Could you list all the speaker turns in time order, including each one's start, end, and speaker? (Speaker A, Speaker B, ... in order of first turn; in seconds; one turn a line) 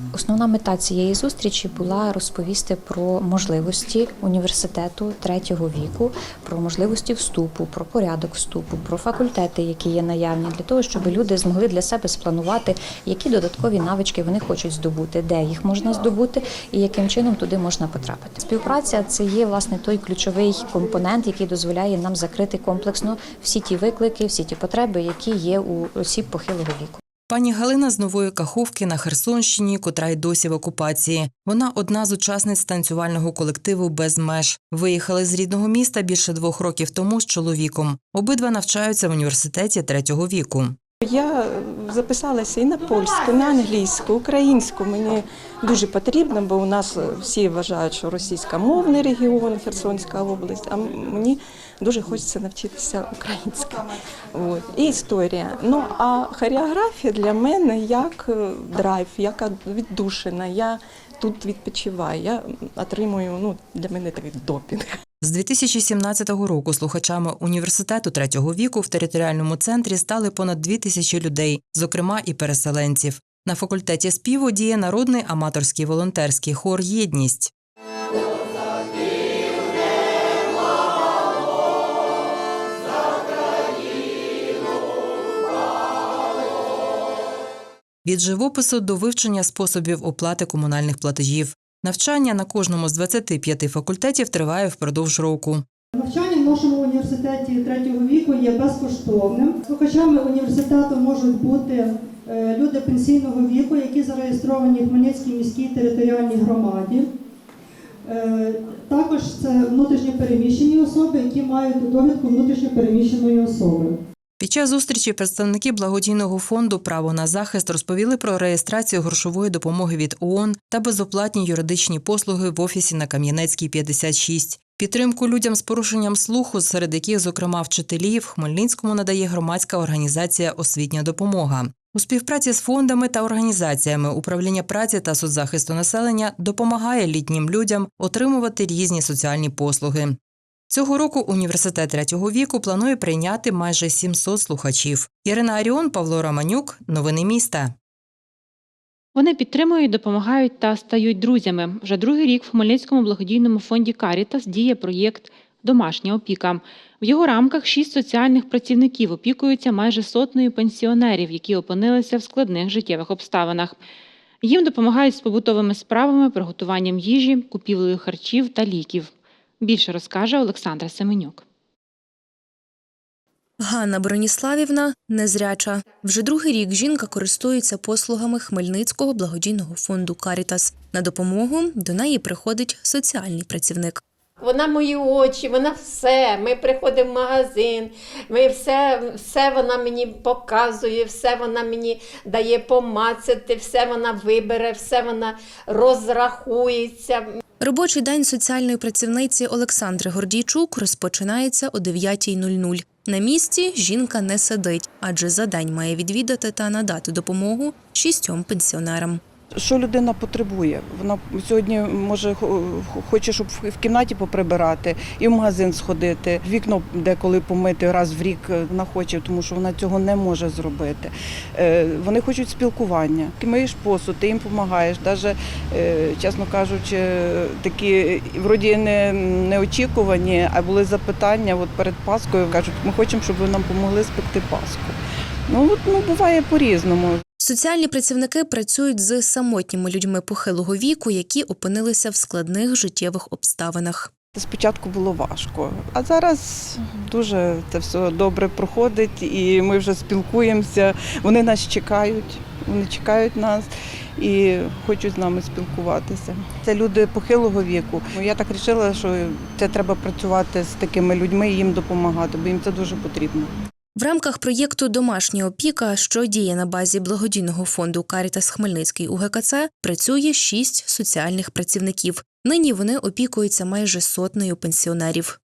Speaker A: 0.1-14.2
Speaker A: 15.1-26.9
Speaker B: 27.3-40.8
Speaker C: 41.0-65.0
Speaker B: 65.2-77.5
Speaker B: 88.0-95.6
Speaker D: 95.9-107.1
Speaker D: 108.0-114.0
Speaker B: 114.4-140.2
Speaker B: 140.7-147.7
Speaker E: 149.1-163.8
Speaker E: 164.4-171.4
Speaker F: 173.6-184.0
Speaker G: 184.4-197.2
Speaker F: 197.6-209.2
Speaker H: 209.6-237.2
Speaker F: 237.4-244.1
Speaker H: 244.3-263.5
Speaker F: 263.9-275.4